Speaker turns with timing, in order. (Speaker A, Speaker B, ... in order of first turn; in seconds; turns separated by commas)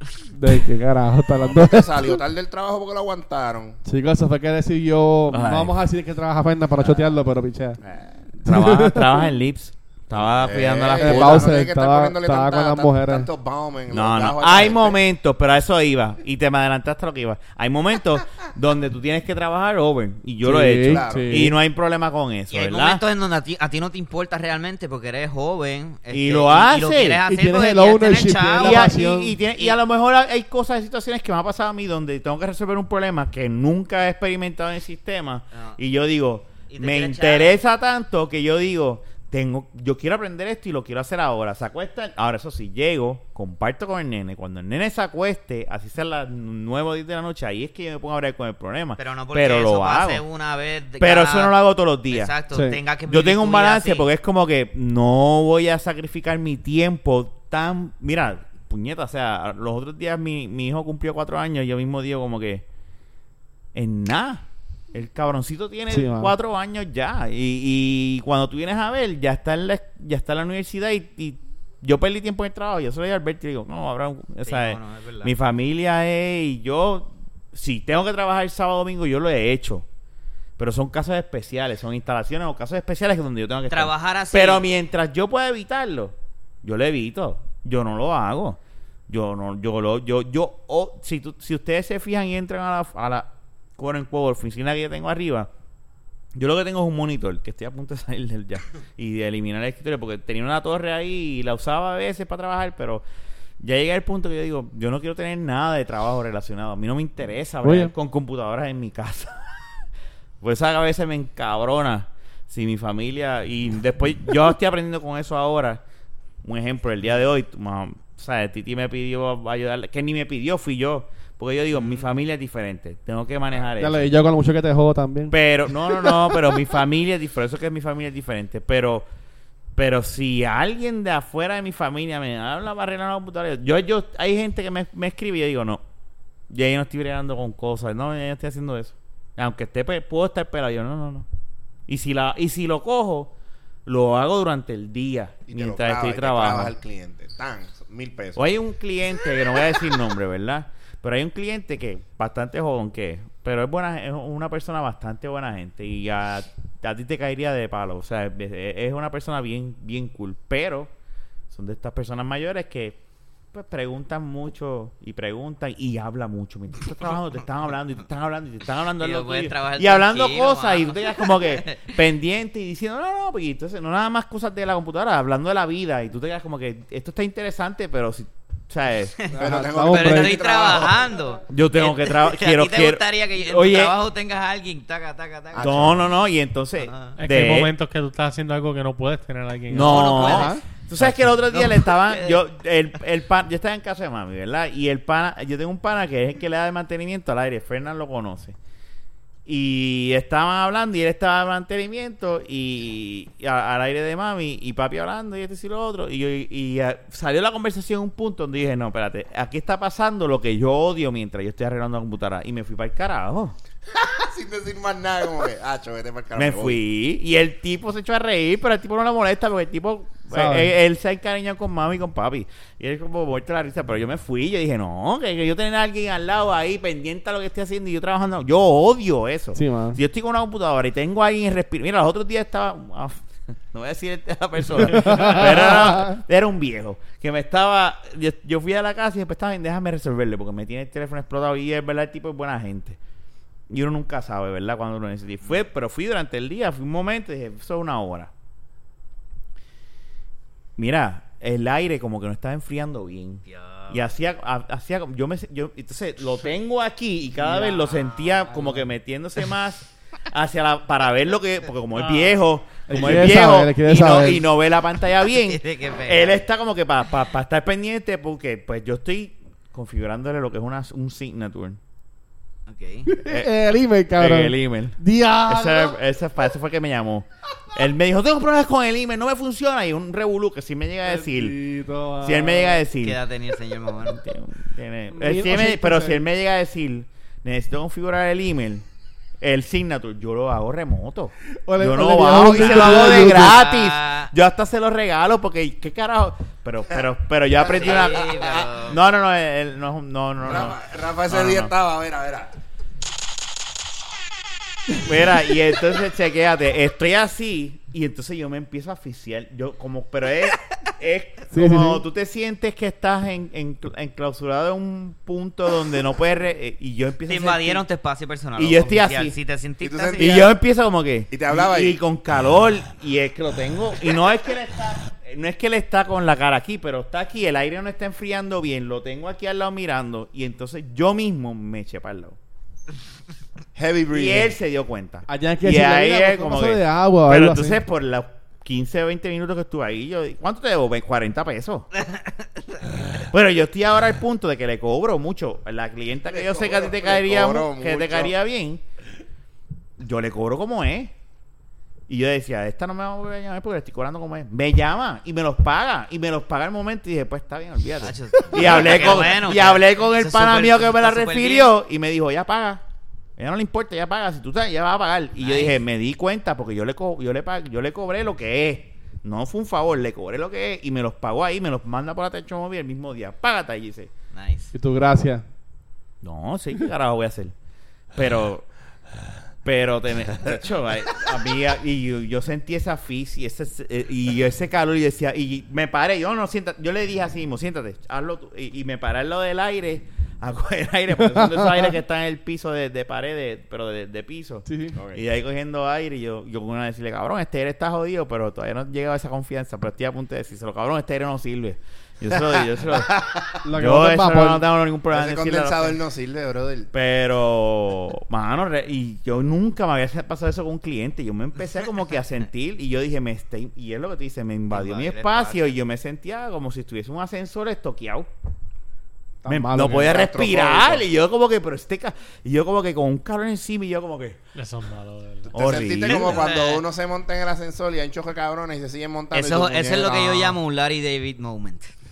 Speaker A: 0.3-2.1, Speaker B: 1.4-3.8, Speaker A: 3.9-7.8, Speaker C: 5.3-5.8, Speaker C: 6.8-7.2, Speaker C: 7.8-11.5, Speaker A: 8.5-9.2, Speaker B: 10.4-15.0, Speaker A: 11.0-13.3, Speaker C: 13.9-23.0, Speaker A: 20.4-21.6, Speaker B: 20.9-21.4, Speaker D: 22.5-28.9, Speaker C: 26.1-27.2, Speaker A: 27.3-29.3, Speaker C: 28.6-50.2, Speaker D: 35.5-35.8, Speaker D: 36.7-37.6, Speaker D: 49.0-51.5, Speaker C: 51.0-52.3, Speaker D: 52.1-54.1, Speaker A: 52.5-52.8, Speaker C: 53.1-62.6, Speaker C: 63.8-79.9, Speaker A: 65.9-66.3, Speaker D: 74.5-75.3, Speaker C: 80.6-95.5, Speaker D: 83.7-84.7, Speaker C: 96.3-103.0, Speaker C: 103.6-109.8, Speaker A: 107.6-107.9, Speaker C: 110.4-115.8, Speaker C: 116.4-124.1, Speaker D: 121.8-122.0, Speaker A: 123.8-126.4, Speaker C: 125.3-129.1, Speaker C: 129.8-135.8, Speaker C: 136.5-141.3, Speaker C: 141.9-143.3, Speaker C: 143.9-146.7, Speaker B: 145.5-148.5, Speaker C: 148.3-160.9, Speaker C: 161.5-163.0, Speaker C: 163.5-179.2, Speaker D: 169.0-171.9, Speaker D: 179.2-185.9, Speaker B: 179.3-181.1, Speaker A: 179.3-180.4, Speaker C: 181.5-183.9, Speaker B: 185.5-186.1, Speaker C: 185.6-187.7, Speaker D: 186.8-187.2, Speaker E: 187.2-190.4, Speaker C: 189.7-198.6, Speaker D: 189.8-190.6, Speaker A: 190.2-190.6, Speaker D: 191.5-192.4, Speaker C: 199.5-213.6, Speaker B: 213.9-216.8, Speaker C: 216.3-243.0, Speaker A: 220.3-220.7, Speaker A: 229.6-230.0, Speaker A: 234.8-236.2, Speaker C: 243.7-248.3, Speaker C: 250.8-271.8, Speaker D: 253.5-254.0, Speaker D: 257.4-258.9, Speaker A: 262.9-264.4, Speaker D: 265.4-266.4, Speaker D: 272.7-273.1, Speaker A: 273.1-276.0, Speaker C: 273.2-273.5, Speaker C: 274.1-281.6, Speaker A: 281.1-282.8, Speaker C: 282.2-283.2, Speaker D: 283.0-284.2, Speaker C: 284.0-288.8, Speaker A: 285.1-286.2, Speaker C: 289.4-301.7, Speaker A: 291.6-293.6, Speaker D: 292.6-294.3, Speaker B: 297.6-298.7, Speaker D: 297.6-299.0, Speaker B: 300.4-302.5, Speaker C: 305.0-317.8, Speaker A: 311.5-312.0, Speaker D: 317.3-320.5, Speaker C: 318.6-319.4, Speaker B: 319.8-320.6, Speaker C: 320.2-332.4, Speaker B: 321.3-322.0, Speaker B: 333.8-334.6, Speaker C: 334.1-341.9, Speaker A: 335.3-337.8, Speaker D: 342.1-342.8, Speaker C: 343.2-348.8, Speaker B: 346.3-348.3, Speaker C: 350.0-351.1, Speaker C: 352.1-362.8, Speaker D: 358.0-361.7, Speaker C: 363.4-374.1, Speaker D: 365.4-365.8, Speaker D: 374.3-374.7, Speaker A: 374.7-375.4, Speaker C: 376.2-377.5, Speaker C: 378.1-378.7, Speaker C: 379.6-406.0, Speaker A: 391.3-391.6, Speaker A: 394.7-395.0, Speaker B: 402.9-403.6, Speaker A: 403.6-404.6, Speaker B: 405.1-406.9, Speaker C: 406.9-418.3, Speaker D: 414.7-415.7, Speaker A: 419.4-420.1, Speaker C: 419.5-424.4, Speaker B: 419.8-421.1, Speaker E: 424.6-425.6, Speaker B: 425.5-430.6, Speaker C: 425.5-426.4, Speaker D: 426.1-426.8, Speaker D: 429.3-431.9